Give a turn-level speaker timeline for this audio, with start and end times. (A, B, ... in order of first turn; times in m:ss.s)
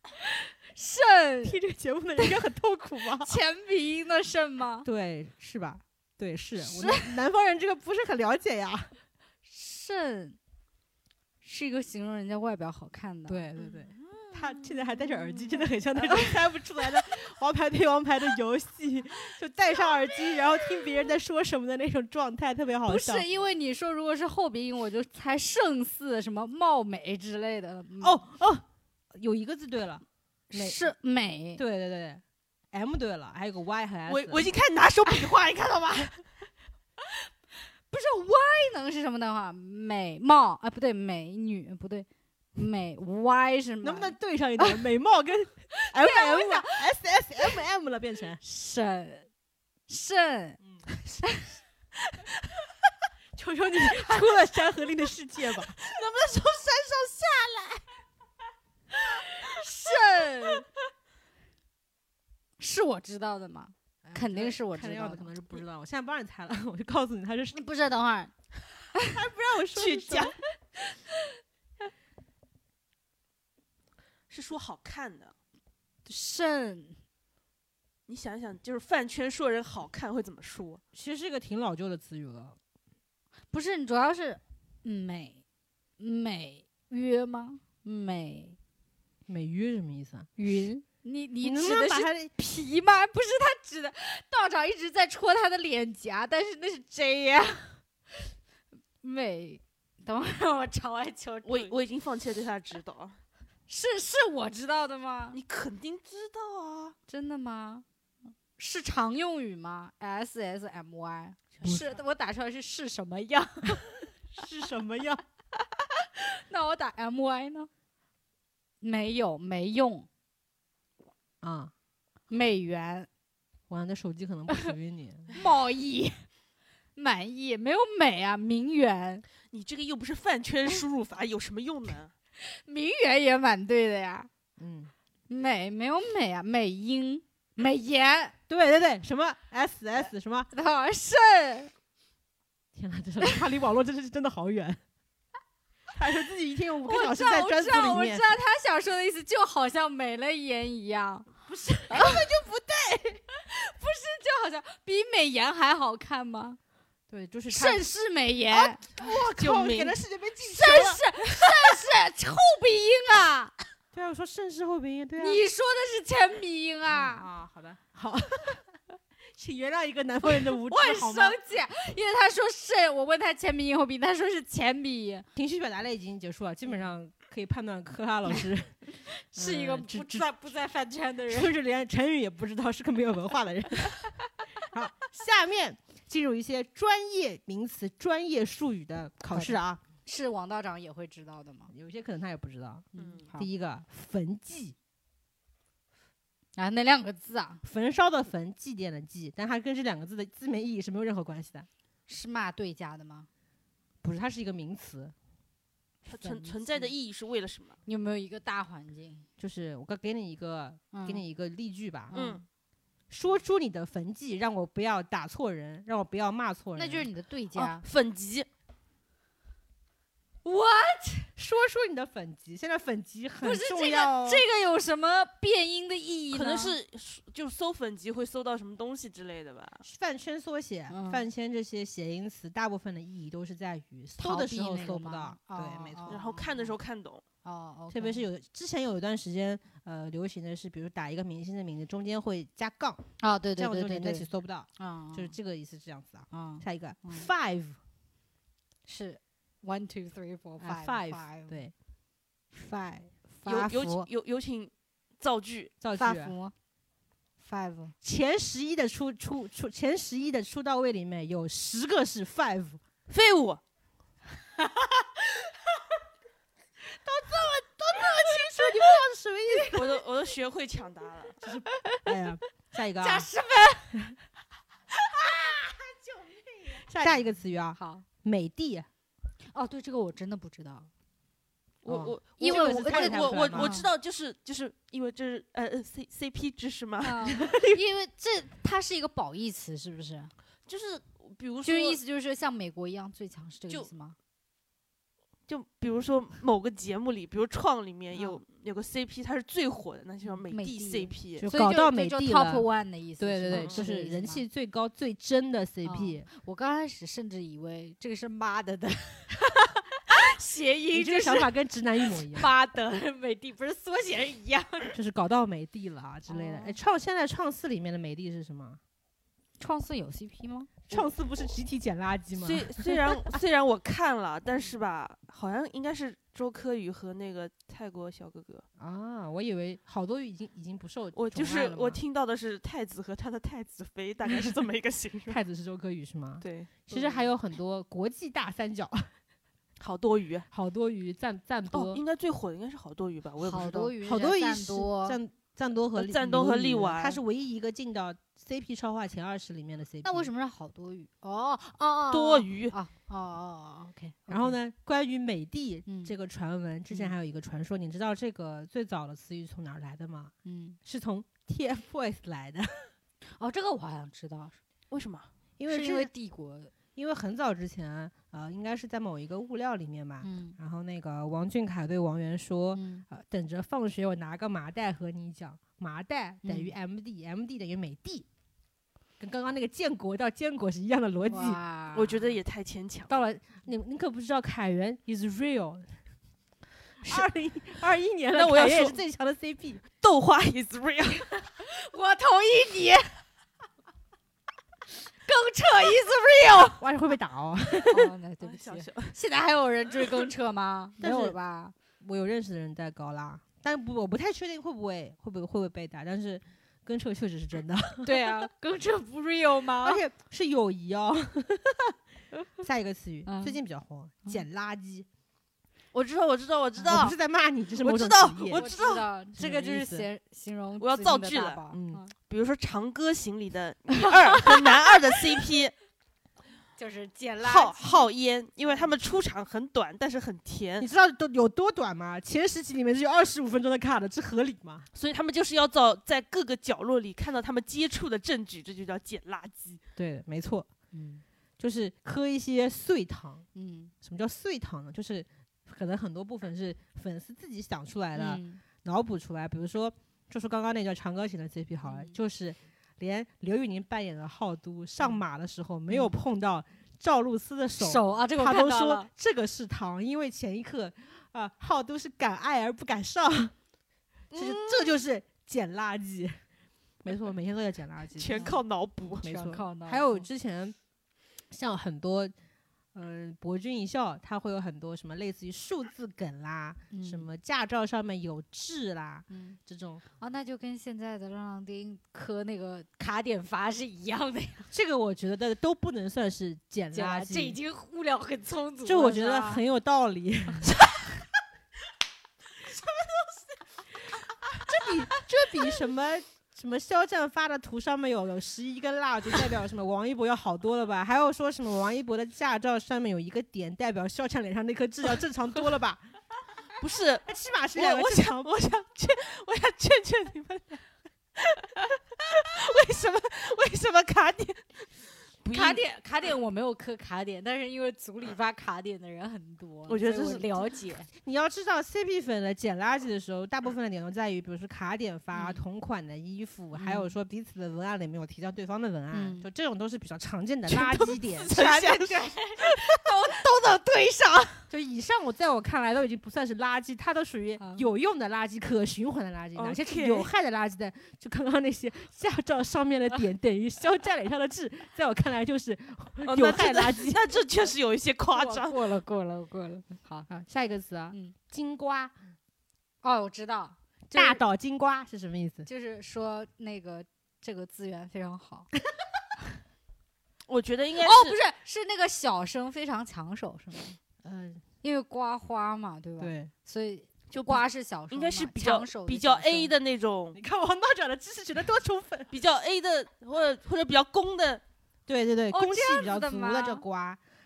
0:00.6-0:01.6 A
0:01.4-0:03.4 B
0:03.2-0:04.9 A
0:04.8-0:08.9 B
0:06.6-0:07.1 A
0:09.4-0:10.4 A
0:11.4-0:16.3 A
0:13.3-0:23.2 B
0:22.8-0:28.2 A
0:28.0-0:30.9 B
0:30.5-0:31.6 A
0:31.6-0:34.5 B
0:34.1-0:36.2 C
0:37.9-0:44.8 A
0:43.8-0:48.4 B
0:45.7-0:46.9 A
0:48.4-0:49.3 A
0:49.9-0:50.6 A
0:51.2-0:51.6 A
0:53.4-0:55.7 B
0:53.9-0:54.2 A
0:55.7-0:57.8 C
0:59.2-1:00.6 A
1:02.6-1:05.3 A
1:04.0-1:07.6 B
1:07.5-1:08.3 A
1:09.1-1:10.3 B
1:09.7-1:10.4 C
1:14.3-1:15.3 C
1:16.0-1:17.0 A
1:18.1-1:20.8 C
1:20.9-1:22.6 B
1:23.5-1:25.4 A
1:26.0-1:28.6 A
1:29.3-1:30.7 B
1:30.4-1:37.8 A
1:31.4-1:32.3 B
1:39.0-1:41.7 A
1:41.4-1:43.2 C
1:43.7-1:45.4 A
1:45.3-1:47.0 C
1:47.1-1:47.8 A
1:48.6-1:54.0 A
1:51.6-1:51.9 B
1:54.3-1:55.2 B
1:56.0-1:57.7 A
1:58.8-2:00.1 A
2:01.4-2:01.7 B
2:02.3-2:03.1 A
2:03.7-2:05.3 B
2:05.3-2:06.2 A
2:07.0-2:09.2 A
2:09.5-2:12.1 C
2:12.4-2:14.3 A
2:14.6-2:14.9 B
2:15.3-2:18.4 A
2:18.5-2:20.5 B
2:20.5-2:21.7 A
2:22.7-2:24.8 B
2:25.9-2:28.2 B
2:26.8-2:31.3 A
2:31.5-2:33.2 B
2:31.9-2:32.2 A
2:33.3-2:36.6 A
2:37.1-2:37.9 B
2:37.5-2:38.8 A
2:38.5-2:41.5 B
2:39.0-2:40.0 C
2:40.4-2:43.5 A
2:43.9-2:45.4 B
2:45.2-2:47.3 A
2:46.9-2:48.6 B
2:49.3-2:51.4 B
2:50.2-2:55.3 A
2:55.3-2:58.8 B
2:59.1-3:01.5 A
2:59.3-3:00.3 B
3:01.3-3:04.1 B
3:04.6-3:09.8 B
3:09.3-3:11.7 A
3:11.7-3:14.8 B
3:12.9-3:13.5 A
3:13.0-3:13.3 C
3:16.6-3:17.6 A
3:17.6-3:21.7 B
3:22.1-3:23.3 A
3:24.0-3:25.1 B
3:26.0-3:27.8 C
3:26.2-3:26.9 A
3:27.8-3:29.3 A
3:29.4-3:32.1 B
3:30.9-3:31.2 A
3:32.1-3:32.4 A
3:32.1-3:32.4 C
3:33.1-3:37.1 B
3:36.7-3:37.8 A
3:37.5-3:38.5 C
3:40.4-3:41.3 A
3:41.4-3:44.4 B
3:43.4-3:46.8 A
3:46.3-3:49.8 C
3:49.8-3:56.2 B
3:50.9-3:51.2 A
3:54.2-3:56.7 A
3:56.1-3:57.2 C
3:57.4-3:58.2 A
3:57.9-4:03.0 B
4:03.2-4:05.3 A
4:03.6-4:07.8 B
4:06.3-4:07.3 A
4:08.8-4:11.6 A
4:10.6-4:11.7 B
4:12.5-4:14.1 A
4:13.4-4:15.7 C
4:15.8-4:16.3 B
4:15.9-4:16.5 A
4:17.4-4:17.9 A
4:18.0-4:22.8 B
4:23.1-4:23.6 C
4:24.6-4:25.8 A
4:27.0-4:29.0 A
4:27.8-4:29.9 B
4:29.7-4:31.4 C
4:31.4-4:33.3 B
4:31.7-4:32.1 A
4:33.0-4:34.0 A
4:35.1-4:38.0 A
4:36.8-4:38.9 B
4:39.5-4:40.9 A
4:41.8-4:47.3 C
4:41.8-4:43.8 B
4:42.4-4:43.9 A
4:47.0-4:50.3 A
4:47.4-4:47.8 B
4:50.7-4:52.0 C
4:51.6-4:54.2 A
4:55.5-5:01.4 C
4:58.1-4:58.4 A
5:00.5-5:04.4 A
5:01.4-5:02.6 B
5:03.2-5:06.3 B
5:03.5-5:03.8 C
5:05.8-5:11.5 A
5:10.9-5:12.5 B
5:12.0-5:15.0 A
5:14.9-5:18.8 B
5:16.3-5:16.8 A
5:19.6-5:20.9 A
5:20.9-5:23.4 B
5:22.4-5:28.6 C
5:28.8-5:32.0 B
5:31.1-5:35.4 C
5:35.3-5:39.1 B
5:36.4-5:36.8 C
5:36.9-5:37.2 A
5:39.8-5:40.5 C
5:40.5-5:42.0 B
5:41.7-5:43.9 C
5:43.4-5:45.2 A
5:44.0-5:50.3 B
5:46.0-5:47.2 C
5:50.0-5:54.6 A
5:52.1-5:52.7 C
5:54.3-6:00.3 B
5:55.8-5:56.1 A
6:00.4-6:00.8 A
6:00.8-6:02.9 B
6:03.4-6:04.6 A
6:04.9-6:05.3 C
6:05.6-6:06.1 B
6:05.7-6:06.7 A
6:06.9-6:18.3 B
6:10.2-6:10.6 A
6:12.7-6:13.0 A
6:16.4-6:16.7 A
6:19.2-6:21.6 B
6:21.2-6:22.3 A
6:21.9-6:23.2 C
6:23.1-6:25.9 B
6:27.0-6:29.8 B
6:28.3-6:29.0 C
6:30.0-6:31.3 C
6:31.4-6:33.2 A
6:35.2-6:36.8 A
6:36.8-6:38.1 B
6:37.8-6:41.7 A
6:38.4-6:39.2 C
6:41.0-6:41.4 B
6:42.0-6:48.4 B
6:48.0-6:50.0 A
6:49.8-6:51.9 B
6:52.6-6:55.1 B
6:53.2-6:53.6 A
6:55.9-6:57.2 C
6:56.8-6:58.7 B
6:57.8-6:59.0 C
6:58.5-7:02.1 A
6:59.3-7:00.1 B
7:00.8-7:01.6 C
7:01.7-7:02.0 B
7:02.3-7:05.7 C
7:04.0-7:04.6 A
7:06.8-7:08.1 A
7:07.4-7:10.9 C
7:08.6-7:08.9 A
7:10.8-7:14.8 B
7:14.9-7:19.8 C
7:20.0-7:20.7 B
7:20.9-7:21.2 A
7:21.6-7:23.5 B
7:23.5-7:23.9 A
7:24.0-7:43.5 B
7:28.1-7:28.6 A
7:31.8-7:32.1 A
7:35.9-7:36.2 A
7:37.8-7:39.1 A
7:44.3-7:45.0 C
7:44.3-7:46.4 B
7:47.0-7:48.5 B
7:48.2-7:49.3 C
7:48.4-7:48.6 A
7:49.2-7:50.2 A
7:49.2-7:50.8 B
7:51.5-7:52.3 B
7:52.9-8:00.0 B
7:56.9-7:57.3 A
7:59.3-7:59.6 A
8:00.2-8:04.7 A
8:04.7-8:07.6 B
8:06.9-8:09.6 A
8:08.8-8:10.8 B
8:12.7-8:13.3 A
8:14.6-8:26.0 B
8:14.8-8:15.6 A
8:26.8-8:30.8 C
8:27.2-8:28.5 B
8:31.4-8:34.8 C
8:35.4-8:35.8 C
8:35.5-8:41.1 A
8:39.9-8:40.6 C
8:41.2-8:51.5 B
8:45.3-8:45.6 A
8:46.7-8:47.1 A
8:49.1-8:49.5 A
8:50.7-8:52.8 C
8:51.5-8:54.7 A
8:54.7-9:07.2 B
8:57.6-8:57.9 A
8:59.6-9:00.3 C
9:06.2-9:08.9 C
9:08.3-9:10.3 A
9:10.3-9:12.1 B
9:13.0-9:14.4 A
9:14.1-9:15.7 B
9:15.6-9:18.7 A
9:20.5-9:21.4 C
9:21.0-9:24.0 A
9:24.2-9:24.6 B
9:24.8-9:29.7 A
9:26.2-9:26.5 B
9:27.3-9:30.4 C
9:30.3-9:32.3 B
9:32.3-9:34.6 C
9:35.1-9:37.2 B
9:35.5-9:36.8 A